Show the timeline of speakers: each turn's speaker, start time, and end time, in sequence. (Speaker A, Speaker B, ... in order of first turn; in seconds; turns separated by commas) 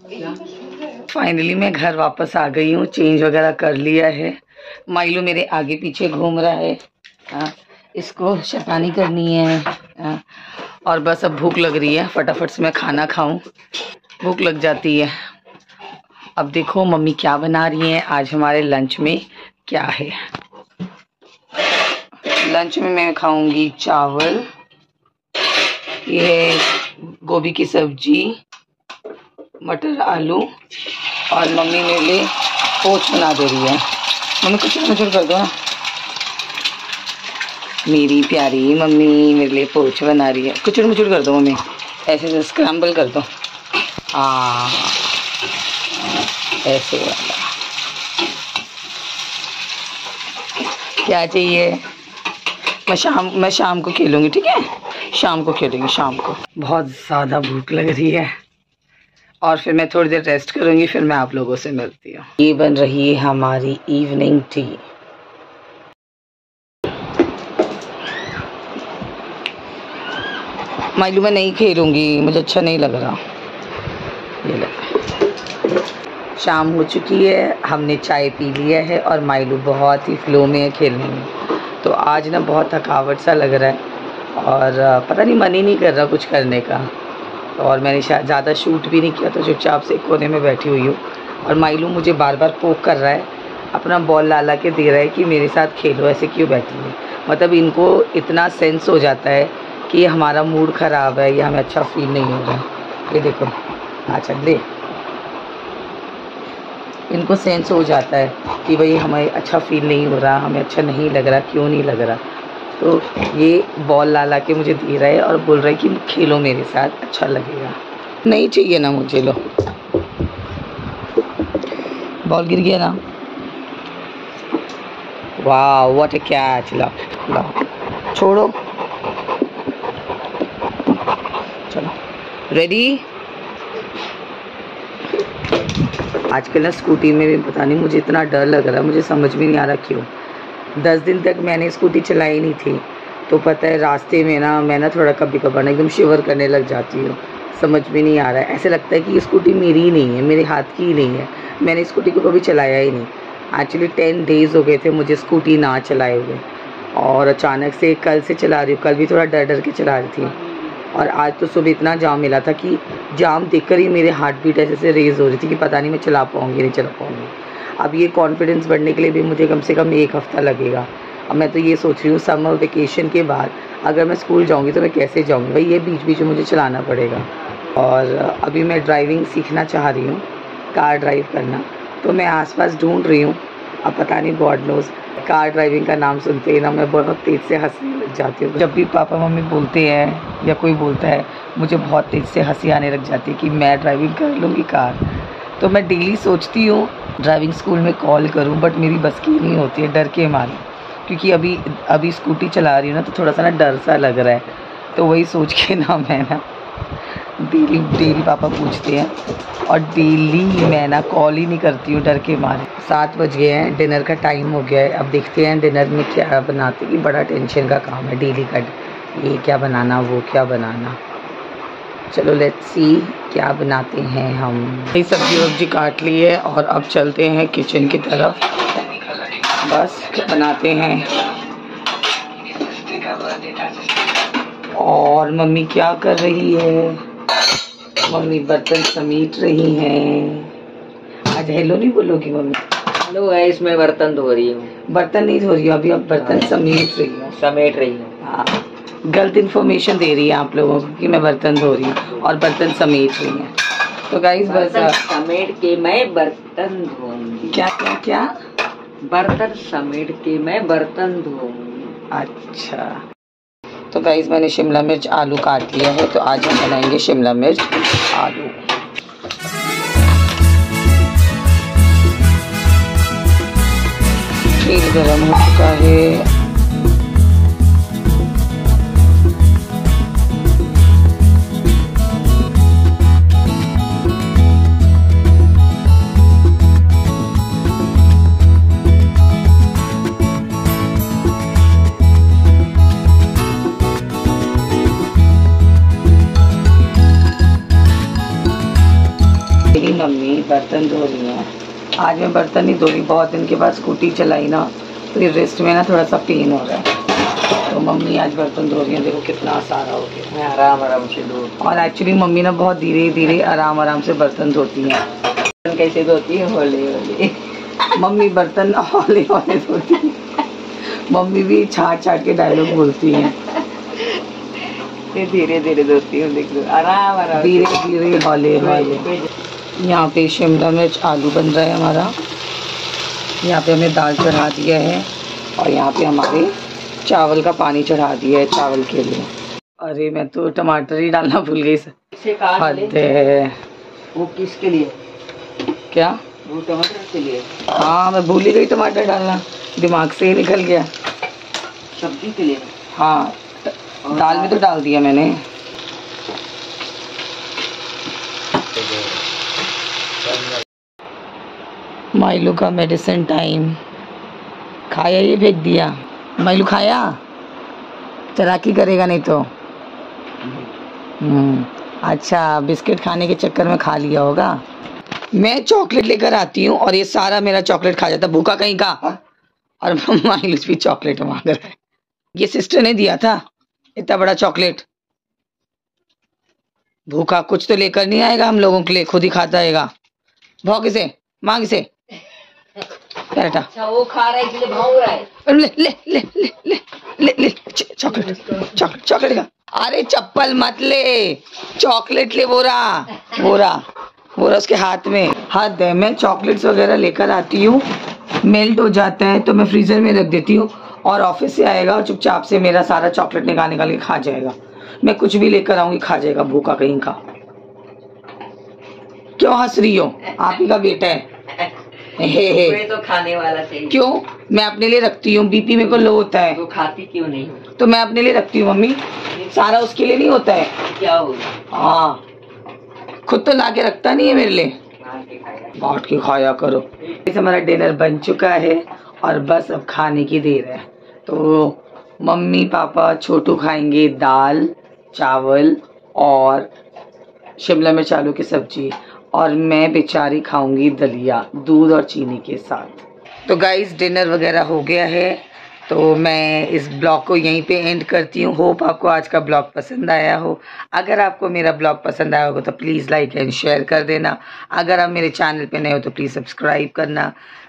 Speaker A: 0.8-13.4, Speaker A: 14.2-15.2, Speaker A: 16.4-20.2, Speaker A: 22.2-24.5, Speaker A: 26.0-28.4, Speaker A: 29.6-30.5, Speaker A: 31.3-33.8, Speaker A: 34.4-35.5, Speaker A: 37.8-43.3, Speaker A: 44.1-45.1, Speaker A: 46.6-47.5, Speaker A: 51.0-51.8, Speaker A: 52.8-58.3, Speaker A: 59.4-64.8, Speaker A: 70.9-73.2, Speaker A: 74.4-75.1, Speaker A: 76.4-83.8, Speaker A: 84.3-86.9, Speaker A: 87.6-103.6, Speaker A: 104.1-104.7, Speaker A: 107.1-112.2, Speaker A: 112.8-119.4, Speaker A: 122.2-123.0, Speaker A: 125.4-127.6, Speaker A: 128.1-128.6, Speaker A: 131.7-132.0, Speaker A: 132.5-133.0, Speaker A: 136.1-140.1, Speaker A: 140.8-160.4, Speaker B: 160.4-160.8, Speaker A: 160.9-206.4, Speaker A: 207.4-221.0, Speaker A: 222.1-231.4, Speaker A: 232.5-233.8, Speaker A: 234.7-237.0, Speaker A: 238.0-240.5, Speaker A: 241.3-242.6, Speaker B: 242.9-244.7, Speaker A: 244.8-247.3, Speaker B: 247.3-248.2, Speaker A: 248.2-253.5, Speaker A: 254.1-255.0, Speaker B: 254.4-257.6, Speaker A: 257.5-258.3, Speaker B: 259.0-262.0, Speaker A: 262.1-263.0, Speaker A: 263.9-268.6, Speaker A: 274.6-276.3, Speaker A: 299.7-310.3, Speaker B: 310.3-311.6, Speaker A: 311.6-315.1, Speaker B: 315.6-317.4, Speaker A: 317.9-320.2, Speaker A: 320.8-323.4, Speaker B: 323.8-327.8, Speaker A: 327.3-329.1, Speaker B: 328.8-329.2, Speaker A: 329.8-332.2, Speaker A: 333.4-336.5, Speaker A: 337.0-341.9, Speaker B: 342.1-343.0, Speaker A: 342.5-343.6, Speaker B: 344.1-345.0, Speaker A: 345.9-346.2, Speaker B: 346.4-347.6, Speaker A: 347.7-350.9, Speaker B: 351.9-352.7, Speaker A: 352.9-355.4, Speaker B: 354.1-354.6, Speaker A: 362.1-363.8, Speaker A: 364.9-367.2, Speaker A: 368.3-369.5, Speaker A: 371.2-374.6, Speaker A: 375.3-379.2, Speaker A: 379.8-381.8, Speaker A: 382.3-383.4, Speaker A: 383.9-384.9, Speaker A: 387.1-389.9, Speaker A: 390.6-391.9, Speaker A: 393.1-393.7, Speaker B: 393.7-395.3, Speaker A: 395.3-403.8, Speaker A: 404.4-407.9, Speaker A: 408.4-417.2, Speaker A: 419.4-421.3, Speaker A: 422.1-422.8, Speaker B: 422.4-424.1, Speaker A: 423.9-426.6, Speaker B: 426.0-427.7, Speaker A: 427.7-430.8, Speaker B: 430.9-431.6, Speaker A: 431.7-432.2, Speaker A: 433.2-434.8, Speaker B: 435.0-435.8, Speaker A: 435.8-446.7, Speaker A: 447.6-467.3